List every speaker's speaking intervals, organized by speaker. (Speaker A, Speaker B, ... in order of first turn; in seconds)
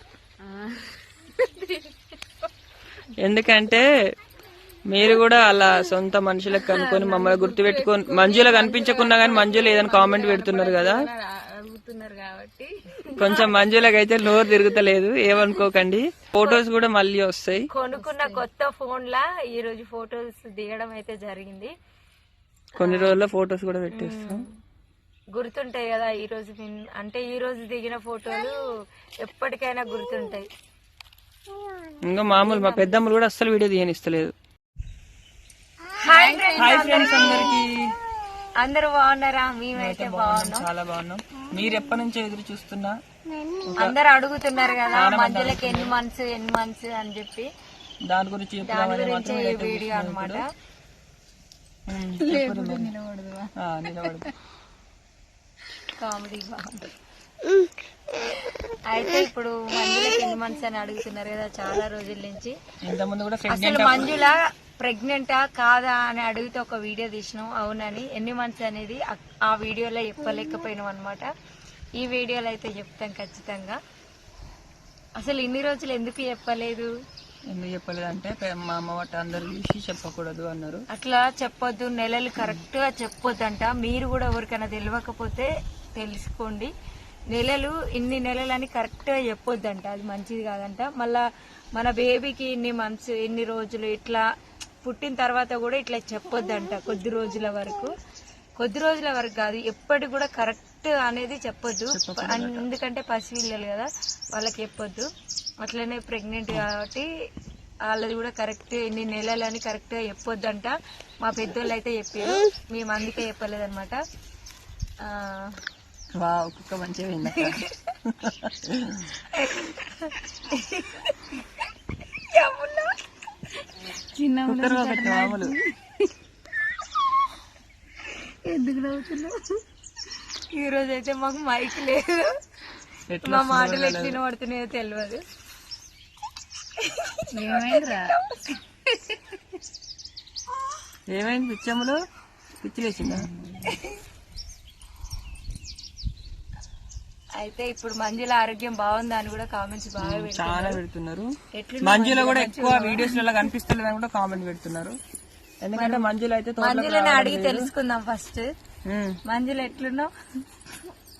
Speaker A: 0.4-1.9, 6.6-13.5, 17.9-18.4, 36.0-37.5, 52.2-54.2, 124.0-125.4, 137.3-138.2
Speaker B: 3.2-3.9, 4.9-11.0, 13.2-17.7, 22.8-24.5, 32.1-34.3, 36.6-37.9, 39.8-43.0, 43.7-44.0, 44.9-46.0, 48.1-50.4, 51.9-52.9, 53.6-54.3, 62.8-64.2, 77.5-80.8, 101.9-102.7, 116.2-119.1, 124.5-125.5, 133.1-134.2, 141.1-142.0, 142.6-143.3, 150.0-151.3, 151.8-155.0, 155.6-157.7, 158.9-159.2
Speaker C: 13.2-13.5, 17.7-21.7, 22.8-23.2, 23.9-24.5, 25.3-28.5, 29.2-30.5, 32.3-33.0, 36.0-37.5, 38.6-40.7, 43.8-47.5, 48.6-50.5, 55.9-56.9, 58.7-62.6, 63.5-71.3, 72.0-73.8, 75.2-76.9, 80.9-86.7, 87.3-91.2, 91.8-94.2, 94.8-97.9, 98.6-105.1, 105.6-107.1, 107.9-114.0, 115.0-115.6, 117.2-118.0, 119.3-121.7, 122.3-123.0, 128.1-129.4, 130.5-132.3, 133.2-135.2, 136.8-139.2, 143.7-144.0, 147.4-150.8, 151.5-153.3, 155.8-156.1, 156.6-158.5, 159.3-160.1